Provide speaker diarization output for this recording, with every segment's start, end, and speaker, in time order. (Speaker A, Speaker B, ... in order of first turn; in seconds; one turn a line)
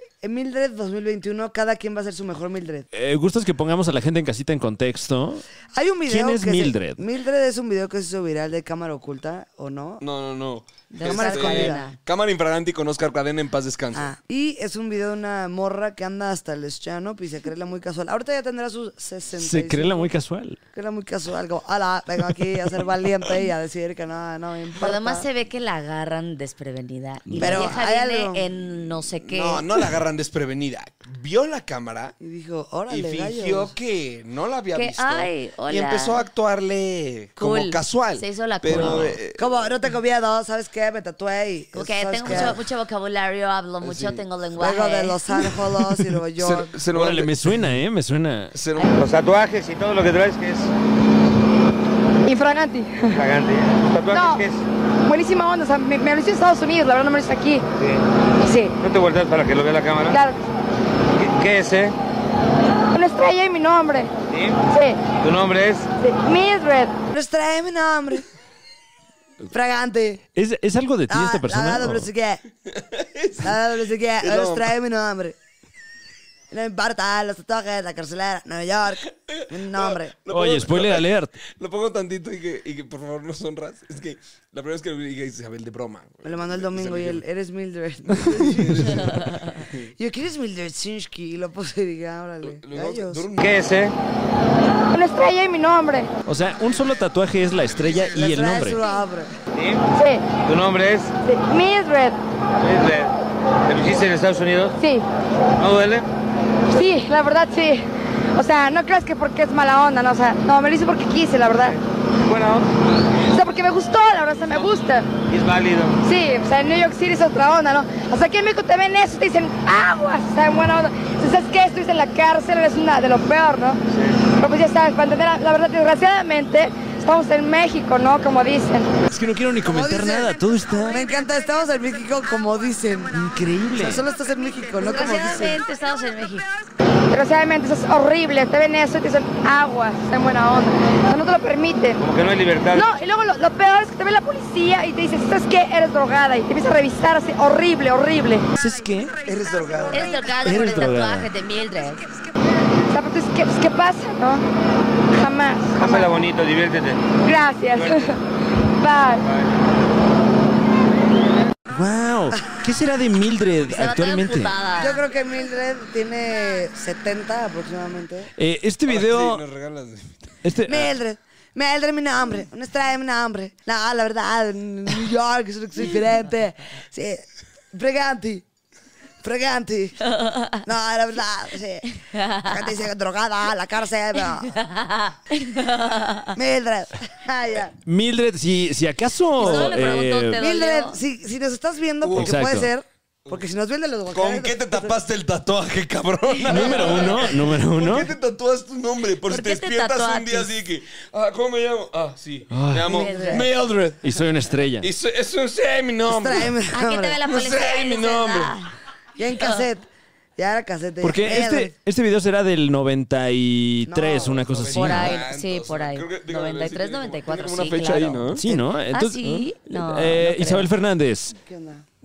Speaker A: 0.2-2.9
Speaker B: 2.9-5.4
Speaker A: 5.7-10.0
Speaker B: 6.0-7.0
Speaker C: 10.0-14.1
Speaker D: 10.9-12.0
Speaker A: 11.0-11.8
Speaker A: 13.9-20.1
Speaker B: 19.4-20.6
Speaker A: 20.7-25.3
Speaker D: 24.8-29.9
Speaker B: 27.3-27.8
Speaker A: 27.4-28.5
Speaker C: 29.2-32.1
Speaker A: 32.2-33.7
Speaker C: 32.9-39.5
Speaker D: 34.7-36.2
Speaker D: 37.4-39.2
Speaker B: 38.7-39.0
Speaker A: 39.4-42.6
Speaker D: 41.7-45.3
Speaker C: 42.3-42.5
Speaker C: 43.8-44.2
Speaker A: 44.5-46.7
Speaker C: 46.4-47.5
Speaker B: 46.9-48.6
Speaker C: 48.5-49.1
Speaker E: 48.9-50.7
Speaker F: 52.2-53.2
Speaker E: 53.1-54.6
Speaker F: 54.1-54.4
Speaker F: 55.0-57.6
Speaker F: 58.4-58.8
Speaker E: 58.8-60.2
Speaker F: 60.1-60.4
Speaker E: 61.1-61.9
Speaker F: 62.9-64.1
Speaker E: 64.3-64.6
Speaker F: 64.7-65.1
Speaker E: 65.2-65.9
Speaker F: 66.0-66.9
Speaker A: 67.1-68.2
Speaker A: 69.5-70.2
Speaker B: 70.3-72.1
Speaker A: 71.1-72.4
Speaker C: 72.7-73.6
Speaker A: 73.4-75.3
Speaker C: 74.2-74.7
Speaker A: 76.5-80.2
Speaker C: 79.3-87.2
Speaker B: 80.3-81.3
Speaker A: 86.2-89.1
Speaker C: 88.3-89.8
Speaker A: 89.9-93.2
Speaker C: 92.4-93.8
Speaker E: 93.4-94.0
Speaker F: 94.9-96.1
Speaker B: 96.2-98.8
Speaker A: 98.1-99.3
Speaker E: 99.5-99.8
Speaker F: 99.9-100.3
Speaker E: 100.3-101.1
Speaker F: 101.2-102.2
Speaker E: 102.6-103.1
Speaker E: 103.7-104.8
Speaker F: 104.8-105.0
Speaker E: 105.5-106.1
Speaker F: 106.7-111.8
Speaker E: 112.2-112.7
Speaker F: 113.3-115.1
Speaker E: 115.3-116.0
Speaker F: 116.0-128.9
Speaker B: 129.1-131.1
Speaker A: 129.6-135.7
Speaker B: 133.1-134.0
Speaker D: 134.8-136.5
Speaker F: 137.1-142.0
Speaker E: 142.0-142.9
Speaker F: 142.7-148.4
Speaker B: 148.6-149.2
Speaker C: 149.2-150.1
Speaker D: 149.9-152.1
Speaker B: 150.3-151.3
Speaker F: 152.9-154.4
Speaker F: 155.2-156.1
Speaker E: 155.7-157.2
Speaker F: 157.2-158.1
Speaker E: 157.7-158.1
Speaker F: 158.8-159.2
Speaker B: 161.7-164.5
Speaker D: 163.7-165.0
Speaker A: 164.8-168.3
Speaker B: 168.4-169.4
Speaker C: 168.8-170.4
Speaker B: 170.4-170.9
Speaker A: 170.7-178.4
Speaker A: 179.2-180.1
Speaker D: 180.2-180.6
Speaker A: 180.6-184.6
Speaker D: 182.1-182.8
Speaker D: 184.4-186.3
Speaker A: 186.3-187.7
Speaker B: 187.8-190.4
Speaker D: 189.3-191.0
Speaker A: 190.4-194.9
Speaker C: 192.0-192.4
Speaker B: 192.2-192.7
Speaker C: 194.1-206.5
Speaker B: 196.4-198.1
Speaker D: 196.5-197.1
Speaker A: 196.5-197.1
Speaker D: 199.2-200.5
Speaker B: 202.5-202.9
Speaker D: 202.8-203.5
Speaker A: 202.9-203.5
Speaker B: 204.0-204.9
Speaker A: 206.1-207.2
Speaker D: 206.7-208.7
Speaker C: 207.2-208.6
Speaker A: 209.2-211.7
Speaker D: 209.4-209.7
Speaker B: 211.0-215.2
Speaker A: 213.8-214.4
Speaker C: 214.2-218.4
Speaker D: 214.7-218.4
Speaker B: 218.3-221.3
Speaker D: 218.9-220.7
Speaker A: 221.3-221.8